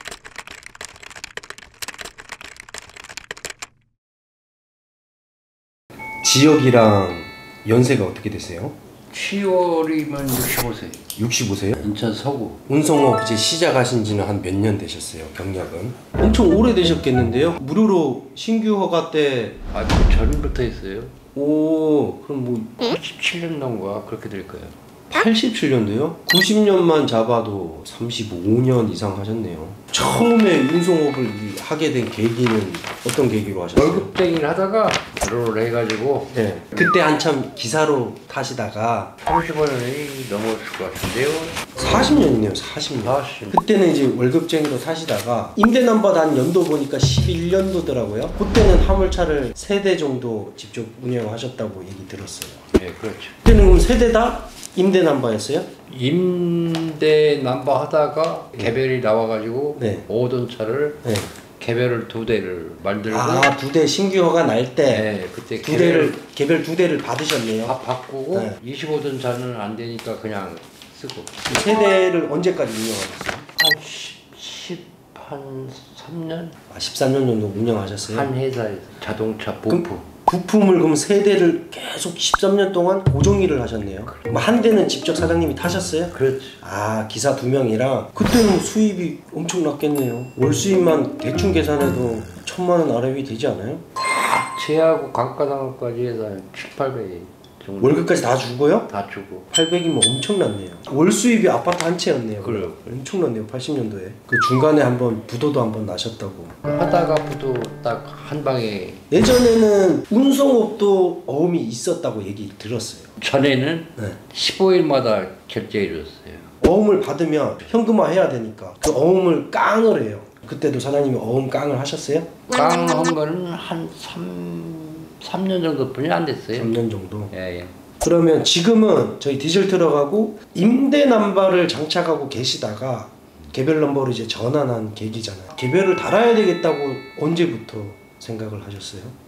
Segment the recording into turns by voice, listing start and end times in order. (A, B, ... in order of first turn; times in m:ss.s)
0:06.2-0:08.8 A
0:09.1-0:11.1 B
0:11.2-0:11.9 A
0:11.8-0:12.6 B
0:12.7-0:19.6 A
0:19.7-0:21.2 B
0:21.4-0:22.8 A
0:22.8-0:24.8 B
0:25.1-0:34.1 A
0:33.8-0:36.3 B
0:36.3-0:39.2 A
0:39.3-0:41.8 B
0:41.8-0:52.6 A
0:43.0-0:43.6 B
0:52.7-0:53.4 B
0:53.4-0:55.7 A
0:55.9-1:01.0 B
0:59.8-1:00.1 A
1:01.0-1:01.3 A
1:01.6-1:03.5 B
1:03.1-1:05.1 A
1:04.9-1:06.2 B
1:05.6-1:07.8 A
1:07.6-1:11.4 B
1:08.3-1:08.6 A
1:11.5-1:13.5 A
1:13.6-1:16.6 B
1:16.7-1:18.3 A
1:18.0-1:20.1 B
1:19.7-1:33.8 A
1:24.1-1:24.4 B
1:26.1-1:26.6 B
1:34.0-1:38.1 B
1:37.8-1:38.9 A
1:38.9-1:39.5 B
1:39.5-1:46.6 A
1:42.4-1:42.9 B
1:46.6-1:49.1 B
1:49.1-1:53.1 A
1:53.2-1:56.5 B
1:56.6-2:02.3 A
2:02.5-2:06.8 B
2:06.6-2:07.3 A
2:07.3-2:07.8 B
2:08.0-2:19.2 A